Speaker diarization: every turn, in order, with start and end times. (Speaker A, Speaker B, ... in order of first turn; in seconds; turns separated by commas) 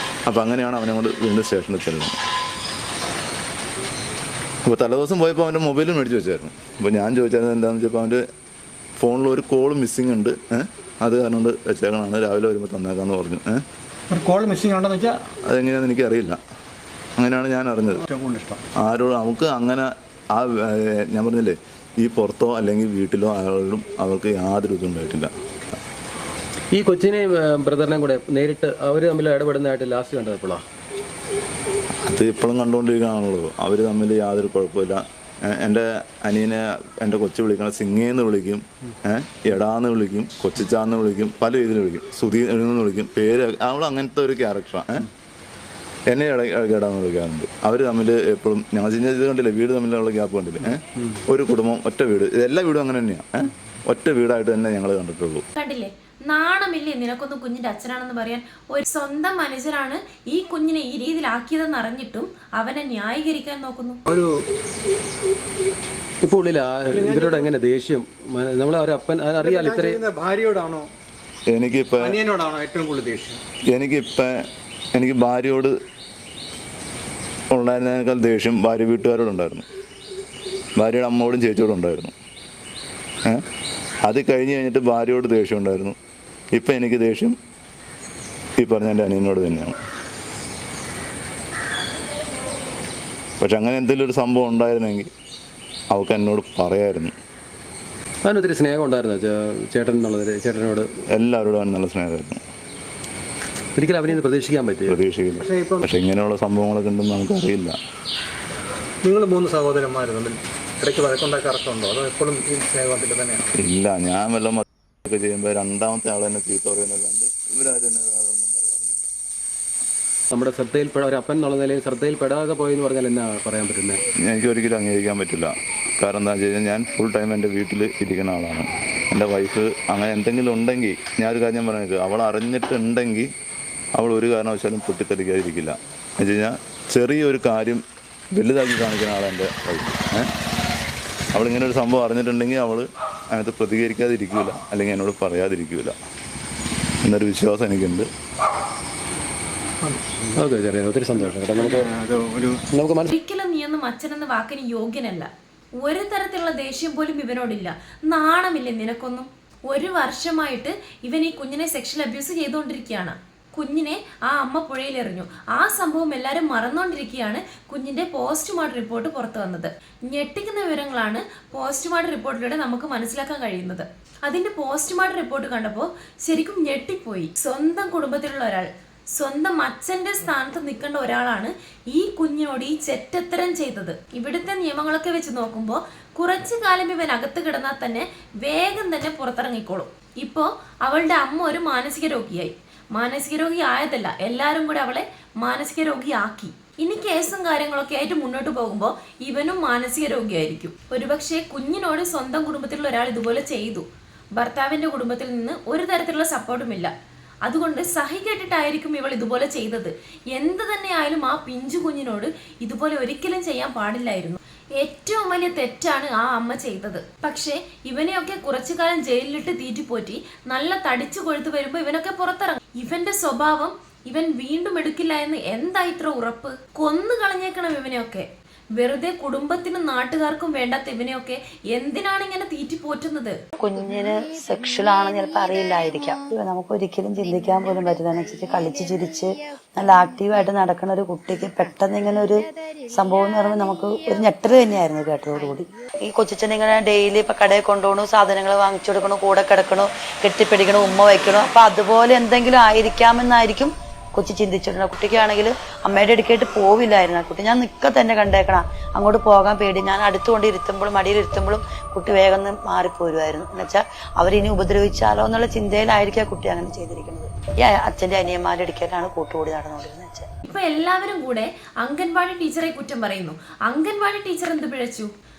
Speaker A: 0.3-2.1, Speaker A: 4.6-8.2, Speaker A: 9.0-13.6, Speaker B: 14.1-15.2, Speaker A: 15.4-16.4, Speaker A: 17.2-18.0, Speaker B: 18.0-18.6, Speaker A: 18.8-25.3, Speaker C: 26.7-30.6, Speaker A: 32.0-45.1, Speaker A: 46.1-55.5, Speaker D: 55.5-64.0, Speaker C: 66.2-70.0, Speaker B: 66.9-67.5, Speaker B: 69.4-70.9, Speaker A: 71.5-72.2, Speaker B: 72.0-73.4, Speaker A: 73.7-74.4, Speaker A: 74.9-75.7, Speaker A: 77.5-79.6, Speaker A: 80.8-82.1, Speaker A: 84.0-86.0, Speaker A: 86.5-87.3, Speaker A: 88.6-89.8, Speaker A: 93.4-95.1, Speaker A: 95.9-97.1, Speaker C: 98.2-100.9, Speaker A: 101.1-102.4, Speaker C: 103.8-105.0, Speaker A: 104.9-107.8, Speaker B: 105.4-105.9, Speaker B: 109.0-113.6, Speaker A: 113.6-119.1, Speaker C: 120.3-124.0, Speaker A: 124.2-133.3, Speaker A: 133.9-140.3, Speaker A: 141.3-146.0, Speaker A: 147.0-148.1, Speaker C: 150.3-152.0, Speaker B: 152.1-152.5, Speaker C: 152.7-153.1, Speaker D: 153.1-155.3, Speaker D: 155.8-203.8, Speaker D: 204.4-206.9, Speaker D: 207.4-233.4, Speaker E: 233.6-270.3, Speaker D: 270.4-275.1